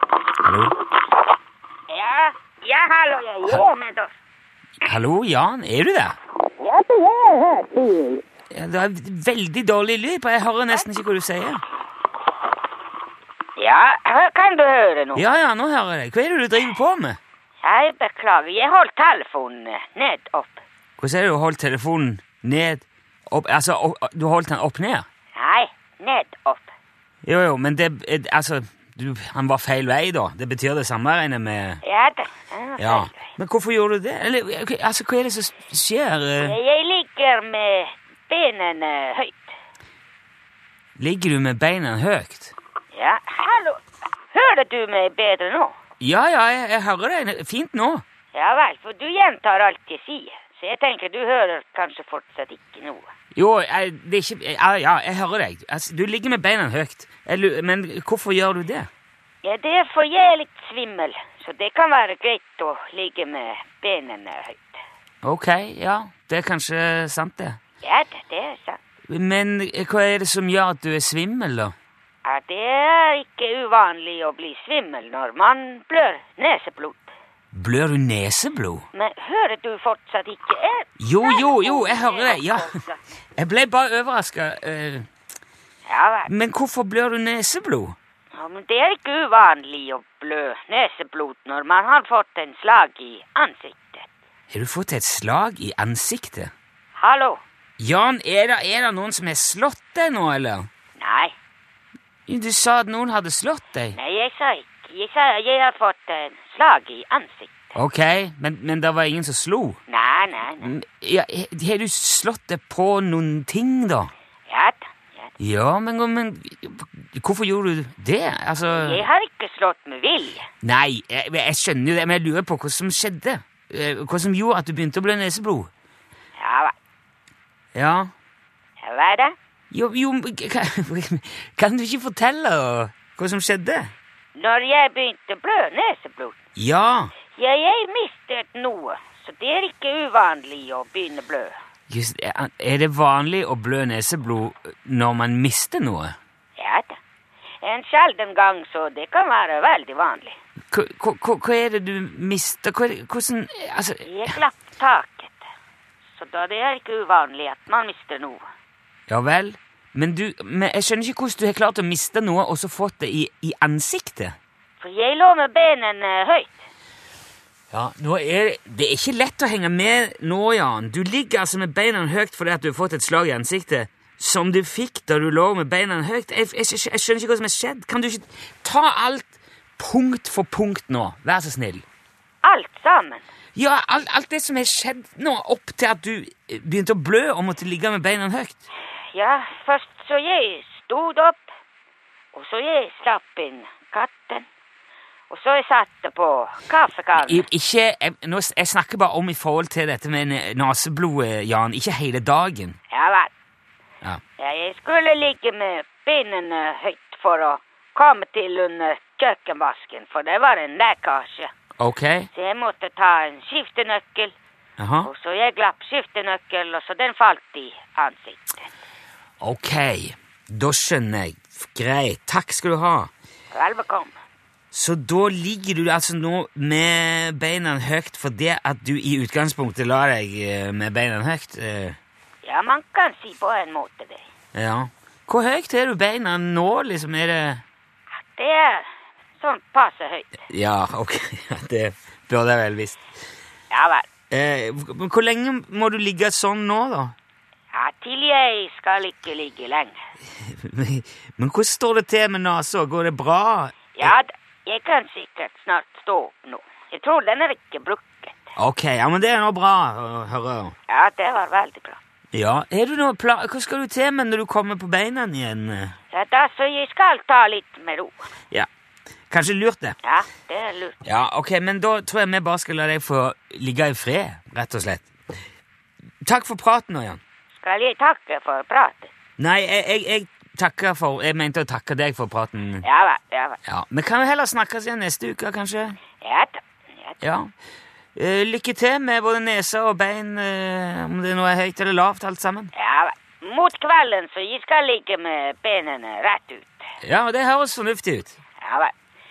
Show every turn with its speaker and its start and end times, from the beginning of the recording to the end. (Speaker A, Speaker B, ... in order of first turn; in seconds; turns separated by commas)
Speaker A: 0.4-0.8, Speaker B: 1.9-4.1, Speaker A: 4.8-6.2, Speaker B: 6.6-8.2, Speaker A: 8.5-11.6, Speaker B: 13.6-15.2, Speaker A: 15.2-17.2, Speaker B: 17.6-20.6, Speaker A: 21.0-25.1, Speaker B: 25.4-26.7, Speaker A: 27.2-31.8, Speaker B: 31.8-33.3, Speaker A: 32.8-36.5, Speaker B: 36.4-39.5, Speaker A: 41.0-42.5, Speaker B: 42.9-43.8, Speaker B: 44.3-45.7, Speaker A: 46.0-48.0, Speaker B: 48.3-53.1, Speaker A: 53.3-58.9, Speaker B: 59.4-64.8, Speaker A: 65.2-67.6, Speaker B: 67.8-68.8, Speaker A: 69.1-71.7, Speaker B: 72.2-77.1, Speaker A: 77.5-78.9, Speaker B: 78.9-83.0, Speaker A: 81.0-82.8, Speaker A: 83.4-85.1, Speaker B: 85.9-86.3, Speaker A: 86.3-88.0, Speaker B: 88.3-94.1, Speaker A: 94.5-96.5, Speaker B: 97.0-97.4, Speaker A: 97.8-100.7, Speaker B: 101.0-101.3, Speaker A: 102.3-104.0, Speaker B: 103.9-107.7, Speaker A: 107.7-109.8, Speaker B: 109.9-110.7, Speaker A: 110.6-114.1, Speaker B: 114.5-115.3, Speaker A: 115.4-119.0, Speaker B: 118.6-120.5, Speaker A: 120.6-125.7, Speaker B: 126.4-126.7, Speaker A: 127.8-128.1, Speaker B: 128.8-129.3, Speaker A: 129.7-133.9, Speaker B: 134.4-136.4, Speaker A: 136.6-137.1, Speaker B: 137.3-141.6, Speaker A: 141.9-146.2, Speaker B: 146.6-147.0, Speaker B: 147.6-150.4, Speaker A: 150.7-154.1, Speaker B: 154.0-155.5, Speaker B: 156.2-158.4, Speaker A: 159.1-164.4, Speaker B: 164.8-166.7, Speaker A: 167.7-181.8, Speaker B: 182.4-183.3, Speaker A: 183.6-188.7, Speaker B: 189.1-191.5, Speaker B: 192.3-194.5, Speaker B: 195.3-197.5, Speaker A: 197.2-202.8, Speaker B: 202.9-203.3, Speaker B: 204.4-211.5, Speaker A: 211.8-212.3, Speaker B: 212.3-214.3, Speaker A: 214.8-215.1, Speaker B: 215.0-218.7, Speaker A: 219.4-223.1, Speaker B: 223.5-224.2, Speaker A: 224.7-232.0, Speaker B: 232.4-234.2, Speaker A: 234.6-237.6, Speaker B: 238.2-238.9, Speaker B: 239.4-240.4, Speaker A: 240.5-243.0, Speaker B: 243.7-244.1, Speaker A: 244.3-247.1, Speaker B: 247.7-250.0, Speaker A: 250.4-254.1, Speaker B: 253.9-258.4, Speaker A: 258.6-260.7, Speaker B: 260.9-262.0, Speaker A: 262.3-265.9, Speaker B: 266.1-268.2, Speaker A: 269.3-270.0, Speaker B: 270.0-271.0, Speaker A: 271.0-275.1, Speaker A: 276.2-277.2, Speaker B: 277.6-279.1, Speaker A: 279.4-282.9, Speaker B: 282.8-283.6, Speaker A: 283.7-286.0, Speaker B: 286.2-287.2, Speaker A: 287.2-287.5, Speaker A: 288.1-292.7, Speaker B: 292.8-296.8, Speaker A: 297.0-298.4, Speaker B: 298.6-298.9